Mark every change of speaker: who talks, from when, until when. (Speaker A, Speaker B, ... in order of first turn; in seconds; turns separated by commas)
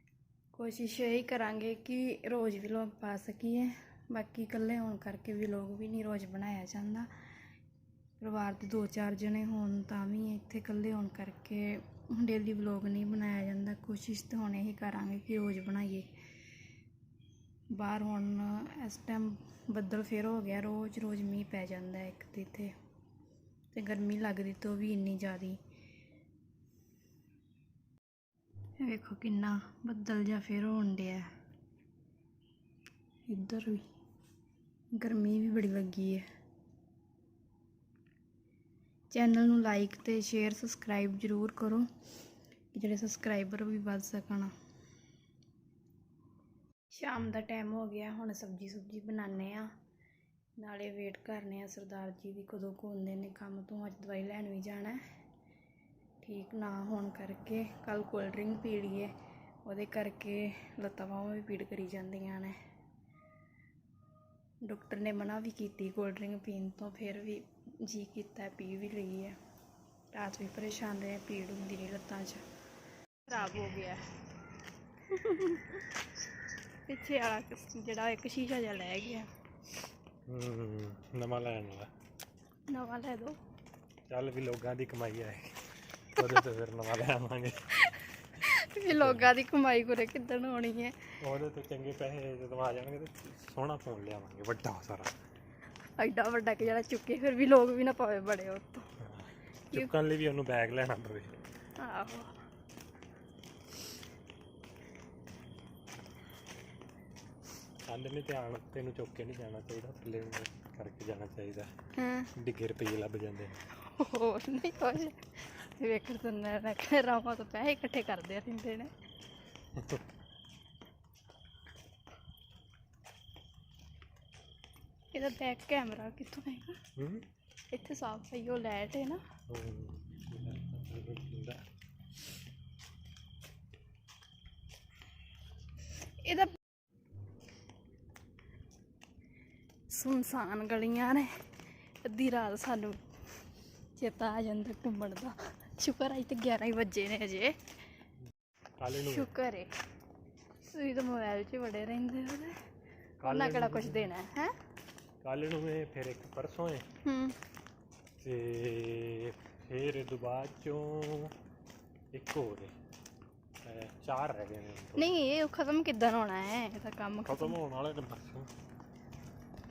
Speaker A: 0.5-7.1, Speaker A: 8.2-16.1, Speaker A: 17.7-22.7, Speaker A: 23.7-25.6, Speaker A: 28.8-31.3, Speaker A: 33.3-33.8, Speaker A: 34.9-36.2, Speaker A: 39.1-41.9, Speaker A: 42.7-44.5, Speaker A: 46.9-49.7, Speaker A: 50.6-55.0, Speaker A: 56.2-59.1, Speaker A: 59.7-62.5, Speaker A: 64.6-69.4, Speaker A: 70.1-72.4, Speaker A: 73.3-74.0, Speaker A: 75.1-75.8, Speaker A: 76.9-79.3, Speaker B: 80.3-81.9, Speaker A: 82.7-83.4, Speaker B: 84.1-85.6, Speaker B: 86.1-87.9, Speaker A: 87.8-91.1, Speaker B: 88.9-89.3, Speaker B: 91.2-95.1, Speaker A: 96.0-98.9, Speaker B: 99.0-101.3, Speaker A: 101.8-102.4, Speaker B: 107.9-111.7, Speaker A: 112.0-112.3, Speaker B: 112.4-113.6, Speaker A: 113.8-118.9, Speaker B: 119.8-120.0, Speaker A: 125.1-126.8, Speaker B: 127.0-127.2, Speaker A: 127.7-129.2, Speaker B: 129.5-131.6, Speaker A: 136.2-136.6, Speaker A: 139.9-141.4, Speaker A: 142.1-143.0, Speaker A: 144.0-147.6, Speaker B: 148.8-149.3, Speaker A: 149.1-149.7, Speaker A: 150.7-152.6, Speaker B: 153.2-154.1, Speaker A: 153.2-154.6, Speaker B: 155.2-156.8, Speaker A: 157.0-157.4, Speaker B: 158.2-161.3, Speaker B: 162.1-162.7, Speaker B: 163.7-165.2, Speaker A: 165.0-167.6, Speaker B: 167.2-168.5